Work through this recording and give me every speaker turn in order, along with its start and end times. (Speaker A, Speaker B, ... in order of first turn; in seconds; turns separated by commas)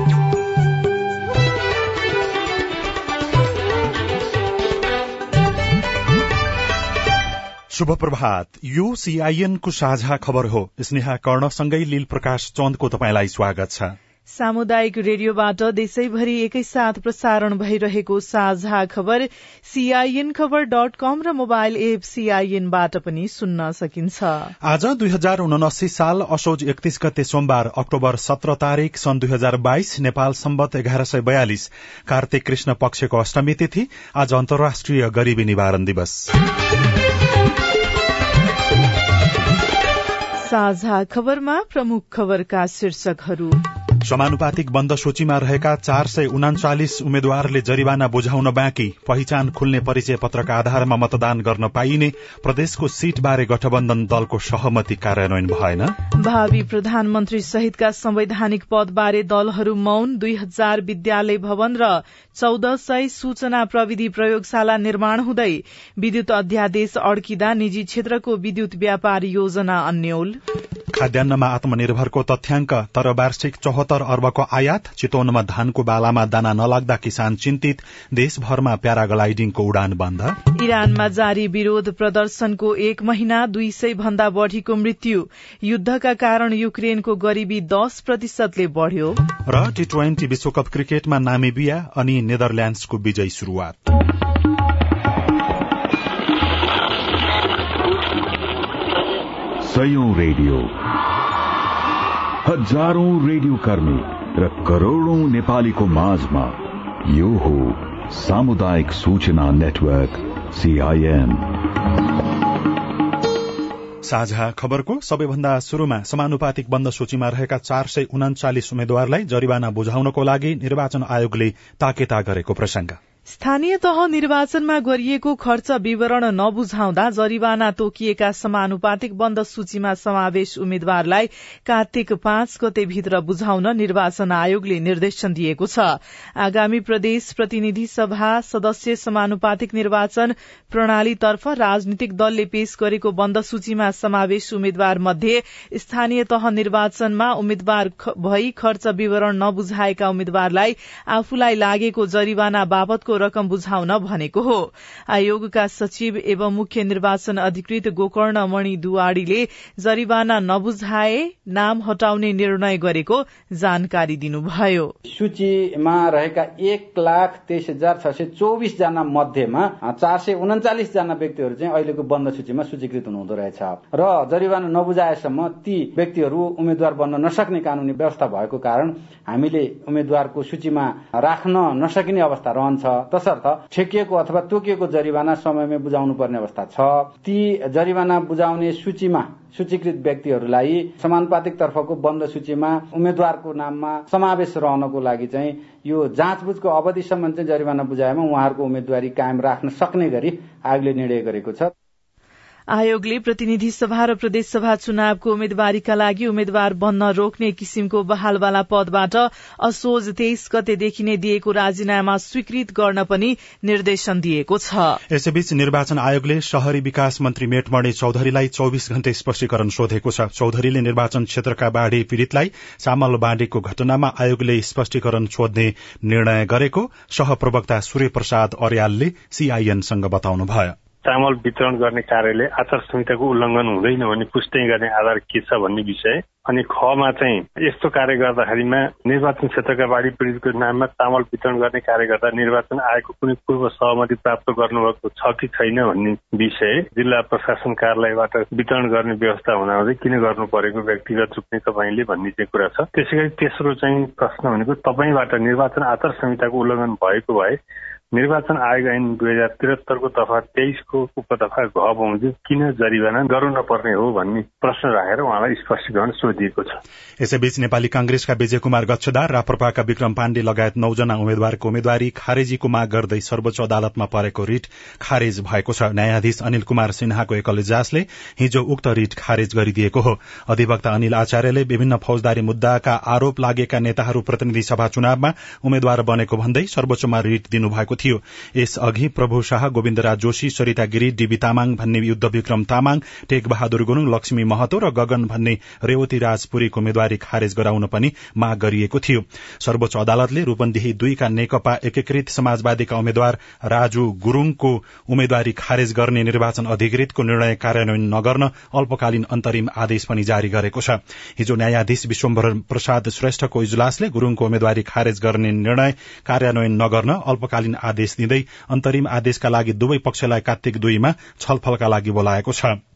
Speaker A: 7.7-13.9, Speaker B: 14.3-24.5, Speaker A: 24.6-36.3, Speaker B: 40.4-43.6, Speaker A: 44.0-56.0, Speaker B: 56.2-70.4, Speaker A: 70.9-80.4, Speaker B: 80.6-89.2, Speaker A: 89.5-93.9, Speaker C: 99.6-100.8, Speaker C: 102.5-111.5, Speaker A: 114.0-123.0, Speaker B: 123.3-164.9, Speaker D: 165.1-201.7, Speaker B: 202.7-215.0, Speaker A: 215.1-230.8, Speaker E: 231.1-257.6, Speaker E: 258.1-266.8, Speaker A: 267.2-322.8